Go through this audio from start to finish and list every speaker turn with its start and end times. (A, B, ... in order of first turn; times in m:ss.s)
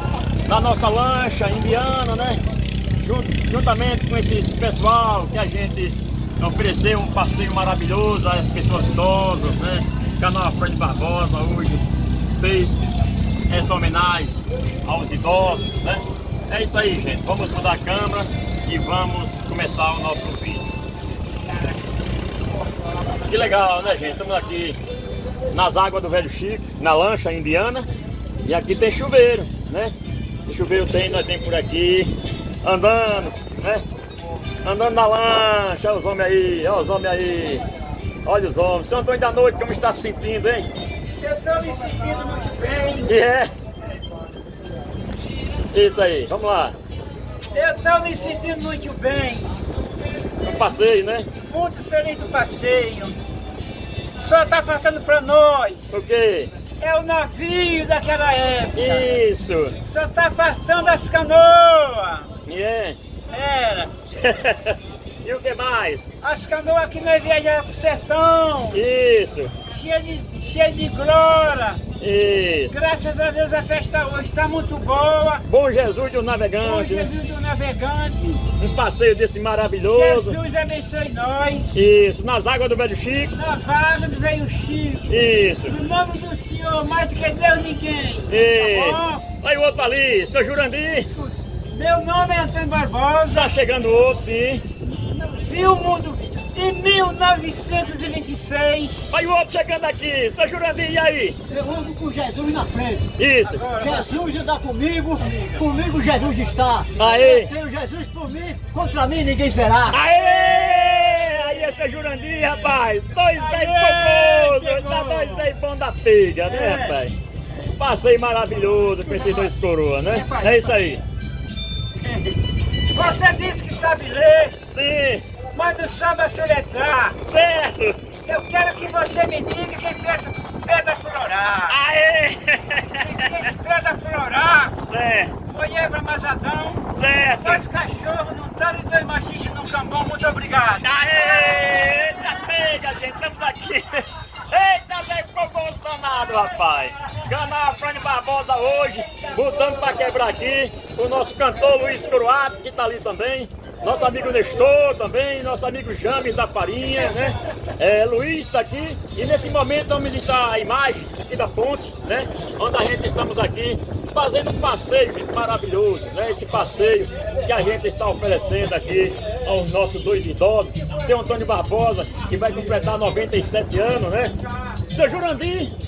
0:00.5-0:02.4 A
0:03.0-0:11.8 A
0:12.4-0:12.8 A
0:13.5-0:20.7 A
0:23.2-0:24.8 A
0:25.5-0:27.9 A
0:28.4-0:30.0 A
0:30.5-0:33.8 A
0:34.6-0:37.6 A
0:38.2-0:40.7 A
0:41.2-0:43.2 B
0:43.0-0:43.5 A
0:45.7-0:46.8 A
0:47.5-0:49.5 B
0:50.4-0:51.3 A
0:51.5-0:53.2 B
0:54.2-0:56.0 B
0:55.9-0:56.5 A
0:56.8-0:59.2 B
0:58.8-0:59.8 A
0:59.9-1:02.3 B
1:02.5-1:03.0 A
1:03.3-1:03.9 B
1:04.1-1:06.1 A
1:06.2-1:08.8 B
1:08.7-1:09.5 A
1:09.7-1:11.8 B
1:12.0-1:12.7 A
1:12.7-1:15.4 B
1:15.5-1:17.1 A
1:16.6-1:18.4 B
1:18.6-1:20.4 A
1:19.9-1:21.8 B
1:21.7-1:23.3 A
1:23.3-1:25.1 B
1:25.1-1:25.8 A
1:25.7-1:29.2 B
1:28.3-1:31.1 A
1:31.7-1:33.6 B
1:33.3-1:34.6 A
1:35.3-1:39.1 B
1:39.1-1:41.4 A
1:41.5-1:43.1 C
1:43.2-1:43.6 A
1:43.4-1:44.1 B
1:43.8-1:50.0 C
1:47.0-1:47.5 A
1:49.9-1:57.2 A
1:53.4-1:55.5 B
1:56.4-1:57.0 B
1:57.8-2:01.0 A
1:59.1-1:59.5 B
2:00.0-2:00.9 B
2:02.9-2:04.6 B
2:04.7-2:05.3 A
2:05.5-2:07.2 B
2:07.3-2:08.0 A
2:08.3-2:11.8 B
2:11.7-2:13.3 A
2:13.0-2:14.8 B
2:14.9-2:15.3 A
2:15.5-2:21.2 B
2:17.0-2:17.6 A
2:20.8-2:54.3 A
2:54.9-2:55.7 A